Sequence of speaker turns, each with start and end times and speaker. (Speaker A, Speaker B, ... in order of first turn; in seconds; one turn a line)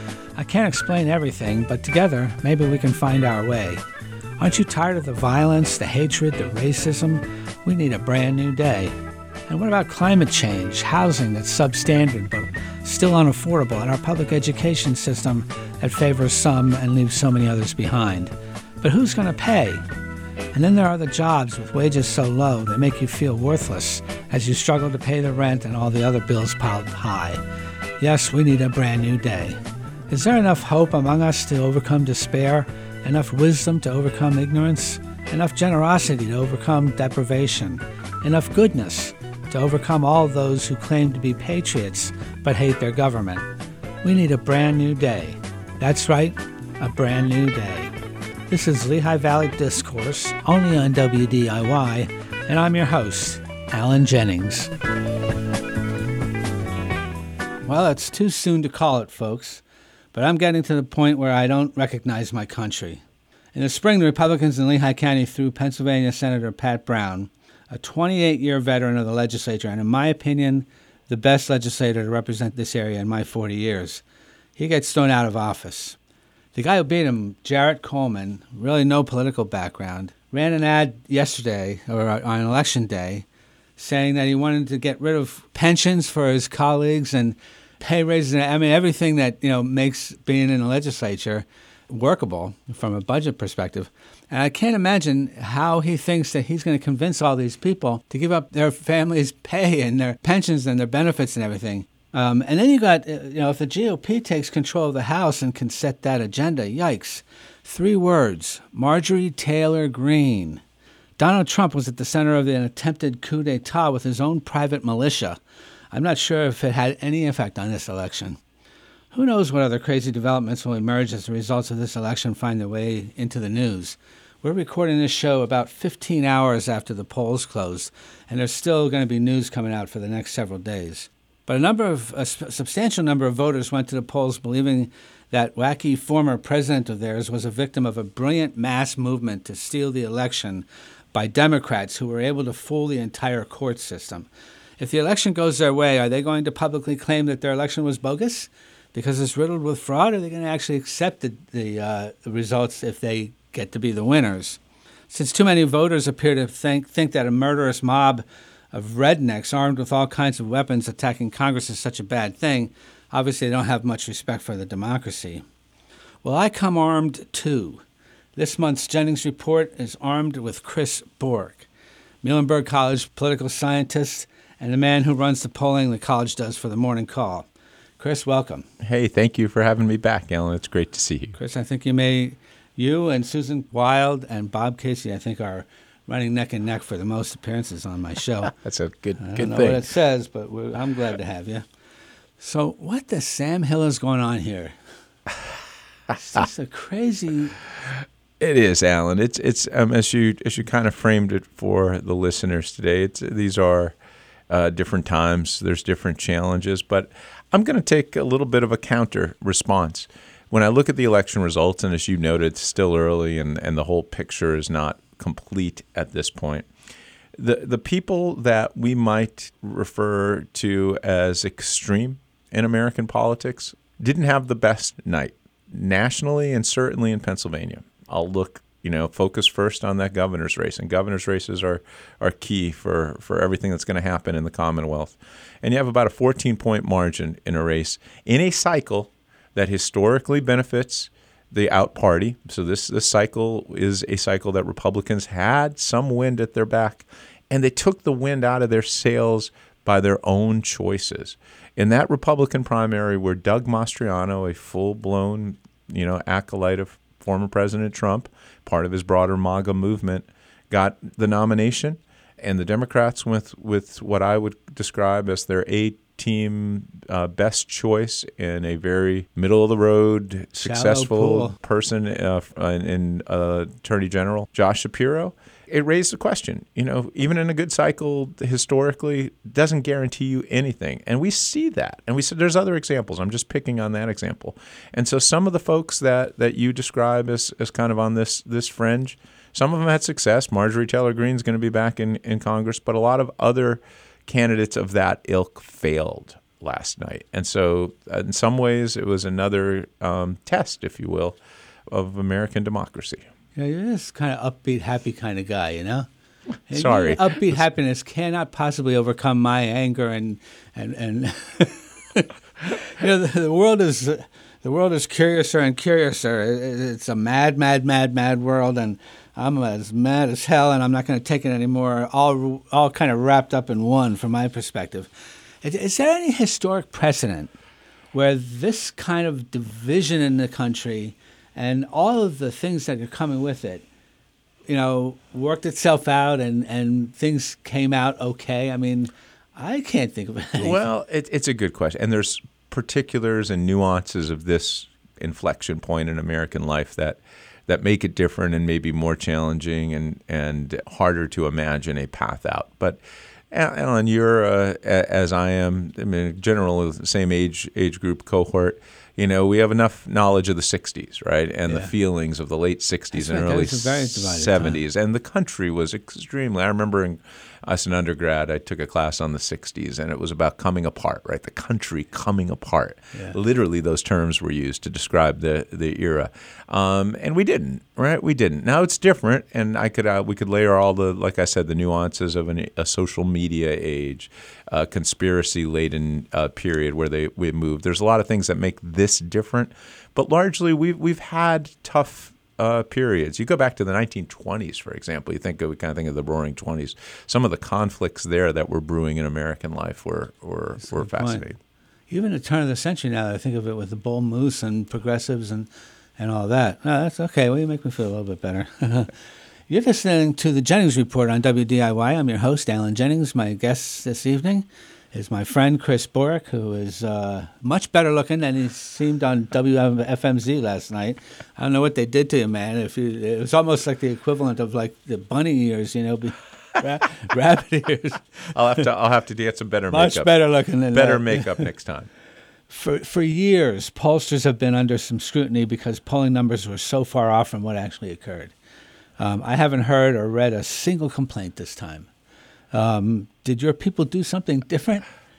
Speaker A: 0.3-3.8
Speaker A: 4.4-8.9
Speaker A: 9.5-19.8
Speaker A: 20.5-27.4
Speaker A: 28.0-29.6
Speaker A: 30.1-43.5
Speaker A: 44.0-47.9
Speaker A: 48.5-54.7
Speaker A: 57.6-59.6
Speaker A: 60.1-63.0
Speaker A: 63.5-74.0
Speaker A: 74.5-76.0
Speaker A: 76.5-83.2
Speaker A: 83.8-110.6
Speaker A: 111.2-115.4
Speaker A: 115.9-118.4
Speaker A: 119.1-144.3
Speaker A: 144.8-165.4
Speaker A: 166.2-167.8
Speaker A: 168.3-171.7
Speaker A: 172.2-177.5
Speaker A: 178.0-178.7
Speaker B: 178.8-181.3
Speaker A: 181.3-188.5
Speaker B: 188.5-189.8
Speaker A: 189.2-191.6
Speaker A: 192.4-194.8
Speaker A: 196.1-197.6
Speaker B: 198.4-203.9
Speaker B: 204.5-216.7
Speaker B: 217.4-301.4
Speaker A: 270.6-271.6
Speaker B: 301.9-303.3
Speaker A: 303.6-306.1
Speaker A: 306.7-325.1
Speaker B: 306.7-307.6
Speaker A: 325.6-327.5
Speaker A: 328.1-333.8
Speaker A: 334.7-340.8
Speaker B: 340.6-353.0
Speaker B: 353.5-401.6
Speaker A: 363.1-364.8
Speaker A: 400.8-401.4
Speaker A: 402.1-409.1
Speaker A: 409.7-428.5
Speaker B: 428.5-430.3
Speaker A: 429.9-431.7
Speaker B: 430.9-432.1
Speaker A: 432.7-438.5
Speaker A: 439.2-442.1
Speaker A: 442.7-445.1